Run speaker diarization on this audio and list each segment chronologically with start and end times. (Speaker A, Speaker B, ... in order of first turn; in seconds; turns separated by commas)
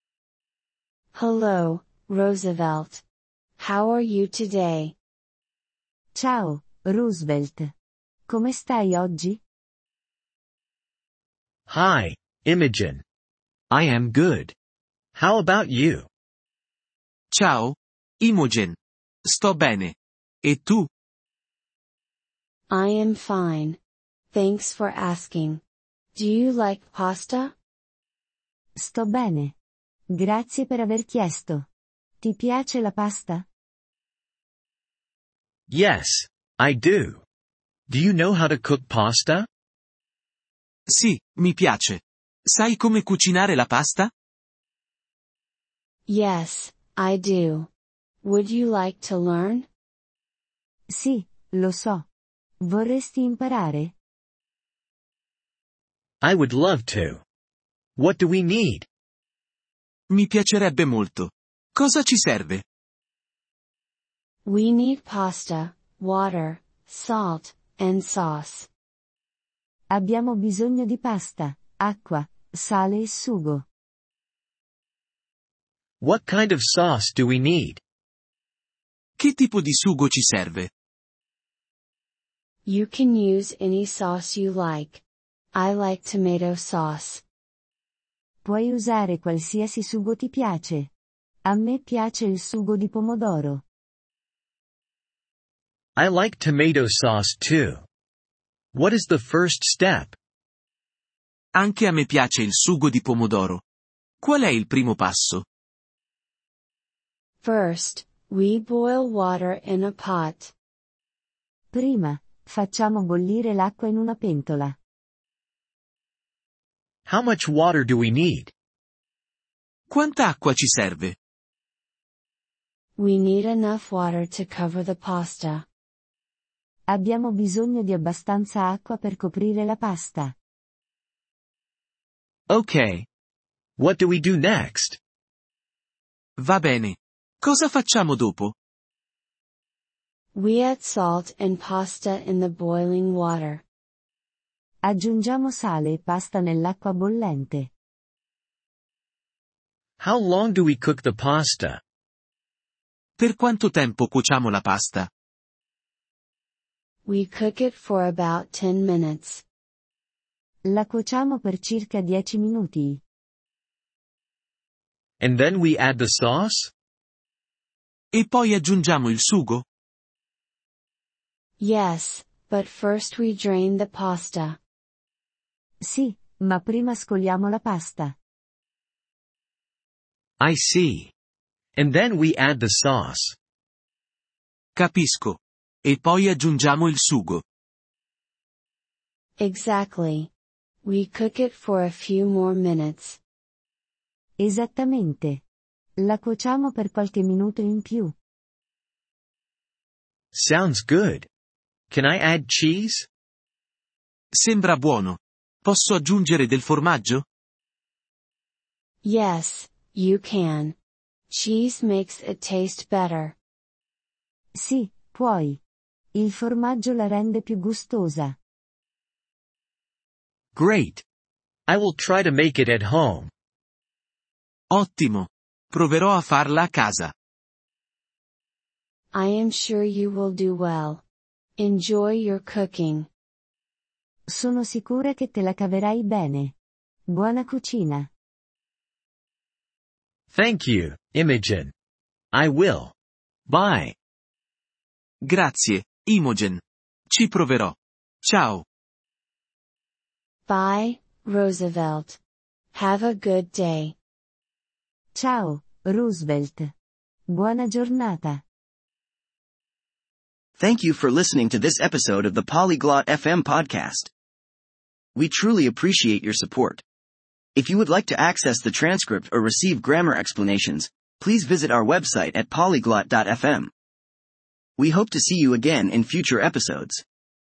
Speaker A: 1.1-3.0, Speaker A: 3.6-5.0, Speaker B: 6.1-7.7, Speaker B: 8.3-9.4, Speaker C: 11.7-13.0, Speaker C: 13.7-14.5, Speaker C: 15.1-16.1, Speaker D: 17.3-20.9, Speaker A: 22.7-23.8, Speaker A: 24.3-25.6, Speaker A: 26.1-27.5, Speaker B: 28.8-29.6, Speaker B: 30.1-31.7, Speaker B: 32.2-33.5, Speaker C: 35.7-37.2, Speaker C: 37.9-39.5, Speaker D: 40.9-44.1, Speaker A: 46.1-47.7, Speaker A: 48.2-49.7, Speaker B: 50.9-52.0, Speaker B: 52.6-53.9, Speaker C: 56.2-57.2, Speaker C: 58.0-58.9, Speaker D: 60.1-62.6, Speaker A: 64.5-68.7, Speaker B: 69.9-73.6, Speaker C: 76.0-77.8, Speaker D: 79.2-80.7, Speaker A: 82.7-85.0, Speaker A: 85.5-87.2, Speaker B: 88.4-90.9, Speaker B: 91.4-93.6, Speaker C: 96.0-97.8, Speaker C: 98.7-100.2, Speaker D: 101.5-103.6, Speaker D: 104.2-105.4, Speaker A: 107.4-110.5, Speaker B: 111.7-114.8, Speaker C: 117.0-118.5, Speaker D: 119.9-121.1, Speaker A: 123.0-125.7, Speaker B: 126.9-130.3, Speaker C: 132.5-133.1, Speaker C: 133.8-135.0, Speaker D: 136.4-138.5, Speaker A: 140.3-143.6, Speaker B: 144.8-147.7, Speaker C: 150.0-151.8, Speaker D: 153.2-155.1, Speaker A: 157.0-159.4, Speaker B: 160.6-163.0, Speaker C: 165.2-166.7, Speaker D: 168.1-169.6, Speaker A: 171.6-174.6, Speaker B: 175.8-178.2, Speaker C: 180.4-181.1, Speaker C: 181.8-183.3, Speaker D: 184.8-187.4, Speaker A: 189.4-190.3, Speaker A: 190.8-193.2, Speaker B: 194.4-195.4, Speaker B: 196.0-198.2, Speaker C: 200.3-201.3, Speaker C: 201.9-203.1, Speaker D: 204.3-207.2, Speaker A: 209.0-210.8, Speaker A: 211.3-213.3, Speaker B: 214.5-215.6, Speaker B: 216.1-218.4, Speaker C: 220.5-221.0, Speaker C: 221.7-223.3, Speaker D: 224.7-227.1, Speaker A: 229.1-231.0, Speaker A: 231.6-233.1, Speaker B: 234.3-236.5, Speaker B: 237.1-238.1, Speaker C: 240.3-241.7, Speaker C: 242.3-242.9, Speaker C: 243.5-243.9, Speaker D: 245.2-246.6, Speaker D: 247.1-248.6, Speaker A: 250.5-252.2, Speaker A: 252.7-253.9, Speaker B: 255.1-256.7, Speaker B: 257.3-258.4, Speaker E: 260.6-264.1, Speaker E: 265.1-266.8, Speaker E: 267.5-273.7, Speaker E: 274.8-277.0